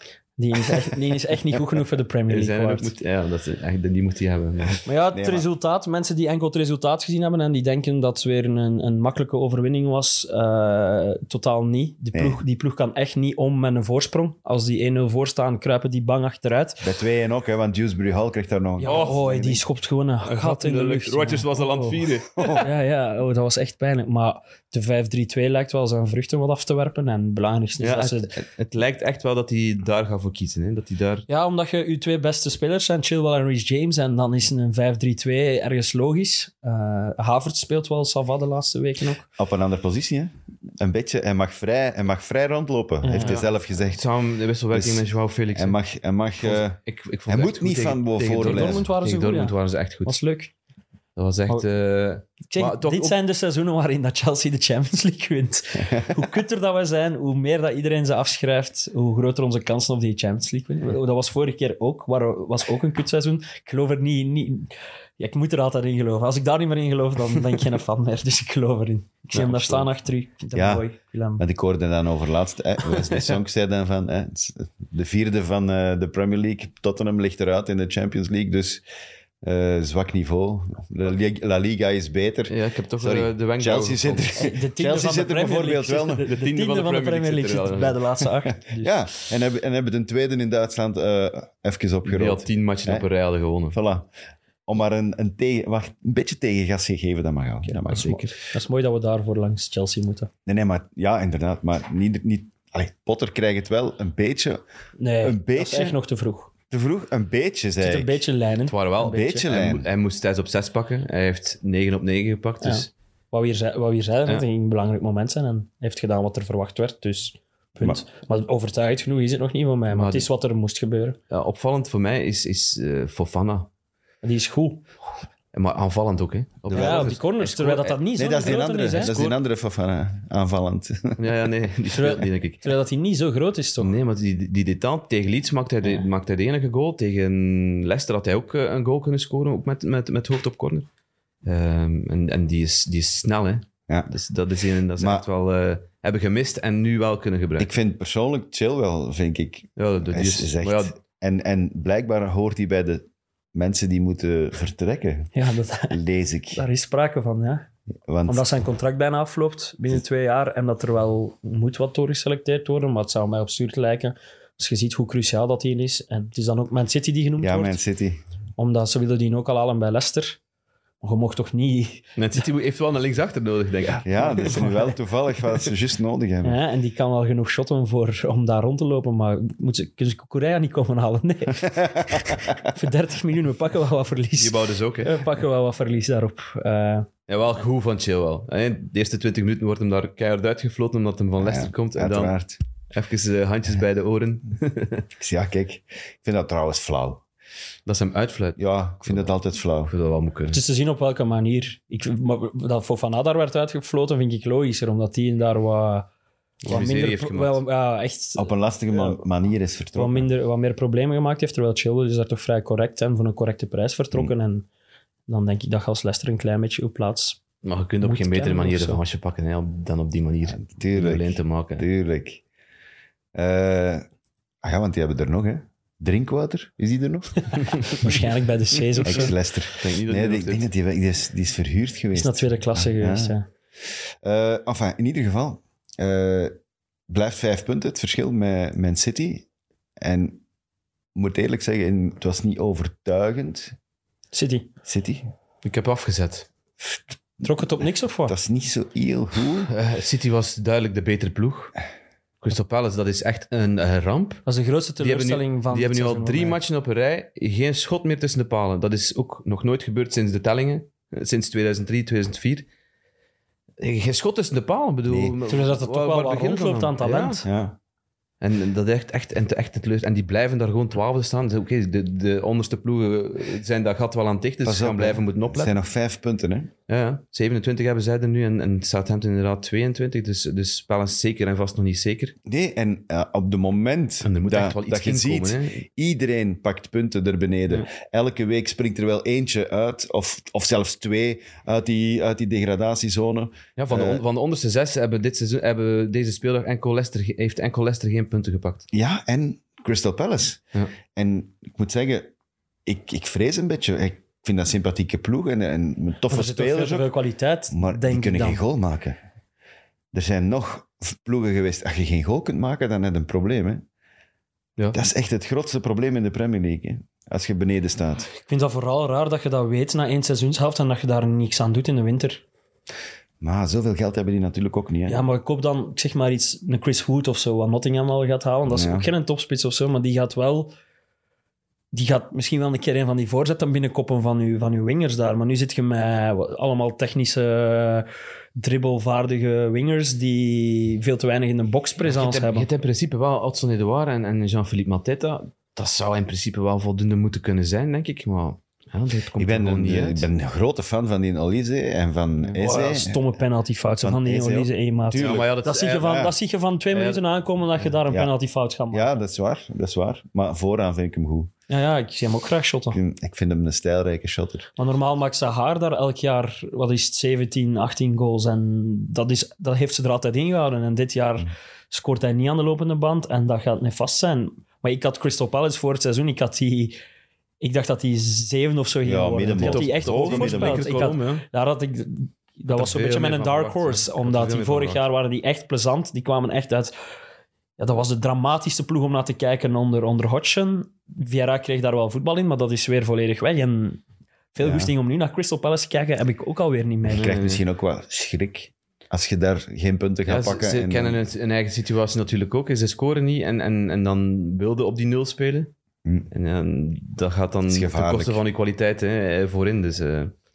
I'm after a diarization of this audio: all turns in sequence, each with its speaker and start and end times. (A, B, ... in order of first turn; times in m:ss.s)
0:00.4-0:02.9 A
0:02.3-0:04.8 B
0:04.9-0:16.8 A
0:05.1-0:05.5 C
0:12.1-0:12.4 C
0:16.8-0:19.6 C
0:18.8-0:22.0 A
0:18.8-0:19.3 B
0:20.2-0:22.6 B
0:22.4-0:22.7 C
0:22.6-0:28.3 A
0:27.8-0:31.3 B
0:31.3-0:39.3 A
0:39.4-0:44.0 C
0:43.0-0:43.4 A
0:43.1-0:45.8 B
0:44.7-0:48.9 C
0:46.4-0:50.2 B
0:48.4-0:50.5 A
0:51.2-0:53.2 B
0:52.5-1:11.4 A
1:09.3-1:09.9 B
1:10.5-1:10.9 C
1:11.4-1:18.8 C
1:19.4-1:26.2 C
1:22.5-1:24.4 B
1:24.4-1:29.0 A
1:26.2-1:28.0 B
1:28.7-1:33.1 C
1:32.0-1:33.8 B
1:33.7-1:34.1 C
1:34.7-1:38.3 C
1:37.8-1:40.3 A
1:37.9-1:38.2 B
1:40.5-1:44.6 C
1:45.0-1:46.5 A
1:45.2-1:46.0 C
1:46.7-1:48.2 C
1:47.8-1:49.4 A
1:48.7-1:52.9 B
1:49.0-1:49.9 C
1:52.6-2:01.2 A
1:59.9-2:00.3 B
2:01.3-2:03.7 B
2:04.2-2:04.8 A
2:05.5-2:09.4 B
2:06.7-2:07.2 C
2:06.7-2:09.1 A
2:08.2-2:11.2 C
2:11.2-2:12.7 B
2:11.9-2:13.9 A
2:13.8-2:20.9 B
2:21.4-2:27.7 B
2:25.0-2:25.2 C
2:27.6-2:35.3 C
2:29.8-2:31.0 B
2:35.3-2:36.0 A
2:35.9-2:36.6 C
2:36.5-2:37.7 A
2:38.1-2:38.5 C
2:38.3-2:47.8 A
2:47.4-2:48.2 C
2:48.6-2:50.4 A
2:51.0-2:52.1 A
2:52.2-2:54.6 B
2:54.0-2:56.6 C
2:54.4-2:54.9 A
2:56.4-3:07.1 A
3:01.8-3:02.4 C
3:04.4-3:05.2 B
3:07.3-3:12.3 B
3:11.4-3:12.6 C
3:12.9-3:15.1 B
3:15.2-3:17.2 C
3:17.9-3:19.3 B
3:18.6-3:19.9 C
3:19.9-3:20.6 B
3:20.5-3:26.1 A
3:26.6-3:27.6 B
3:26.7-3:29.2 A
3:28.4-3:30.3 C
3:30.0-3:34.7 A
3:35.3-3:37.4 A
3:37.6-3:41.9 B
3:38.0-3:39.0 A
3:40.5-3:42.4 C
3:43.4-3:44.0 C
3:44.6-3:48.1 C
3:47.9-3:49.3 A
3:49.0-3:50.7 B
3:49.0-3:53.4 C
3:52.1-3:53.5 A
3:53.9-3:56.5 C
3:57.1-3:59.5 C
4:00.0-4:00.4 C
4:01.2-4:03.8 C
4:04.3-4:04.7 A
4:04.8-4:05.3 C
4:05.6-4:06.5 B
4:07.4-4:08.4 A
4:08.3-4:09.7 C
4:09.7-4:11.7 B
4:12.4-4:14.4 B
4:14.5-4:16.6 A
4:15.0-4:22.7 B
4:23.8-4:27.4 B
4:25.1-4:25.4 C
4:25.5-4:27.4 A
4:27.4-4:27.8 C
4:28.4-4:35.8 B
4:34.6-4:36.7 C
4:36.9-4:42.4 B
4:42.5-4:54.2 C
4:44.2-4:45.8 B
4:53.8-4:58.9 B
4:58.9-5:02.3 C
5:02.9-5:07.1 C
5:06.3-5:08.6 A
5:07.7-5:09.2 C
5:10.1-5:13.8 C
5:14.9-5:18.3 C
5:18.4-5:22.4 A
5:23.4-5:25.2 C
5:25.1-5:30.7 A
5:28.7-5:29.1 C
5:31.9-5:42.7 A
5:42.0-5:50.3 B
5:49.4-5:53.4 C
5:52.6-5:59.2 A
5:54.0-5:55.5 C
5:55.1-5:56.4 B
5:56.9-5:57.2 B
5:58.0-5:58.3 C
5:58.9-6:01.5 C
6:01.7-6:03.0 A
6:02.9-6:04.7 C
6:04.8-6:17.0 A
6:17.6-6:26.9 A
6:19.0-6:20.9 C
6:19.6-6:21.4 B
6:22.7-6:25.0 B
6:27.8-6:34.0 A
6:34.5-6:37.4 A
6:34.6-6:34.9 C
6:37.1-6:41.2 C
6:37.2-6:37.6 B
6:40.3-6:45.7 B
6:46.3-6:50.3 B
6:47.7-6:48.4 C